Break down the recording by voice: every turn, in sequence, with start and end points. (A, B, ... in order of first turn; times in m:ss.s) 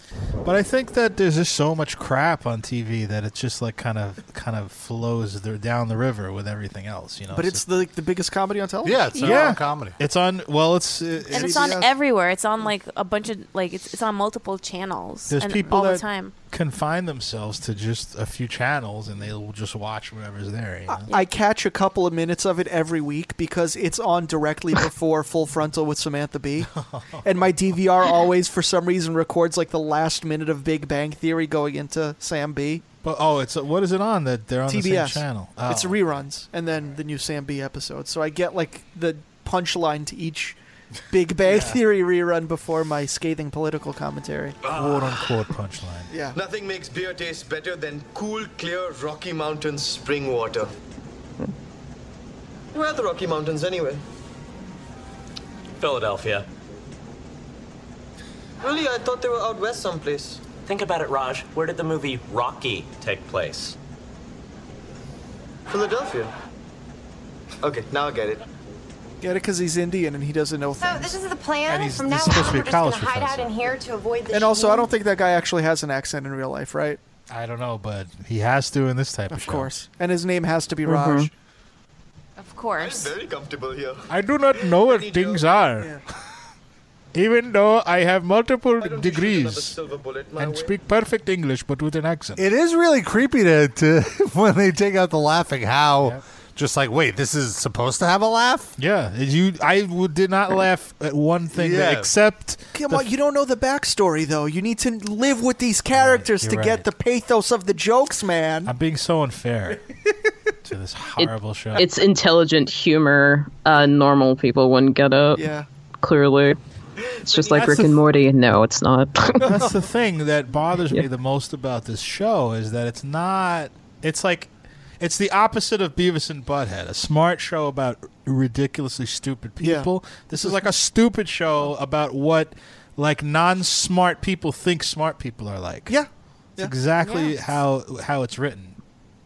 0:00.4-0:07.6 A
0:07.3-0:09.5 B
0:08.8-0:10.0 C
0:09.2-0:11.7 A
0:11.3-0:11.9 B
0:11.3-0:16.3 D
0:15.3-0:21.1 A
0:15.7-0:16.0 B
0:21.1-0:26.7 B
0:26.7-0:27.3 A
0:27.2-0:32.8 B
0:33.0-0:36.0 A
0:34.7-0:40.6 B
0:41.1-0:44.6 B
0:41.5-0:41.8 A
0:44.7-0:45.0 E
0:44.7-0:46.1 A
0:46.1-0:46.4 B
0:46.3-0:50.7 E
0:52.7-0:54.0 E
0:55.8-0:56.4 F
0:58.6-1:00.5 E
1:00.6-1:03.7 F
1:05.7-1:06.3 E
1:07.6-1:08.4 E
1:09.2-1:11.2 B
1:10.8-1:14.9 G
1:11.6-1:13.7 A
1:14.3-1:17.0 B
1:17.3-1:19.7 A
1:19.3-1:21.3 B
1:20.8-1:21.3 H
1:22.4-1:23.1 D
1:22.8-1:25.5 E
1:24.1-1:25.9 A
1:27.1-1:29.8 A
1:28.8-1:30.8 E
1:30.4-1:32.4 A
1:32.4-1:38.8 C
1:38.8-1:43.0 A
1:41.5-1:42.1 C
1:42.7-1:48.7 B
1:45.9-1:46.8 A
1:48.6-1:49.8 A
1:50.6-1:51.9 A
1:51.2-1:55.4 H
1:55.3-1:55.6 B
1:56.0-1:56.6 H
1:57.2-1:59.6 H
1:57.6-1:57.9 A
1:59.4-1:59.8 B
1:59.4-2:16.0 A
2:09.6-2:09.9 B
2:15.9-2:16.7 B
2:16.6-2:18.8 A
2:17.0-2:17.6 D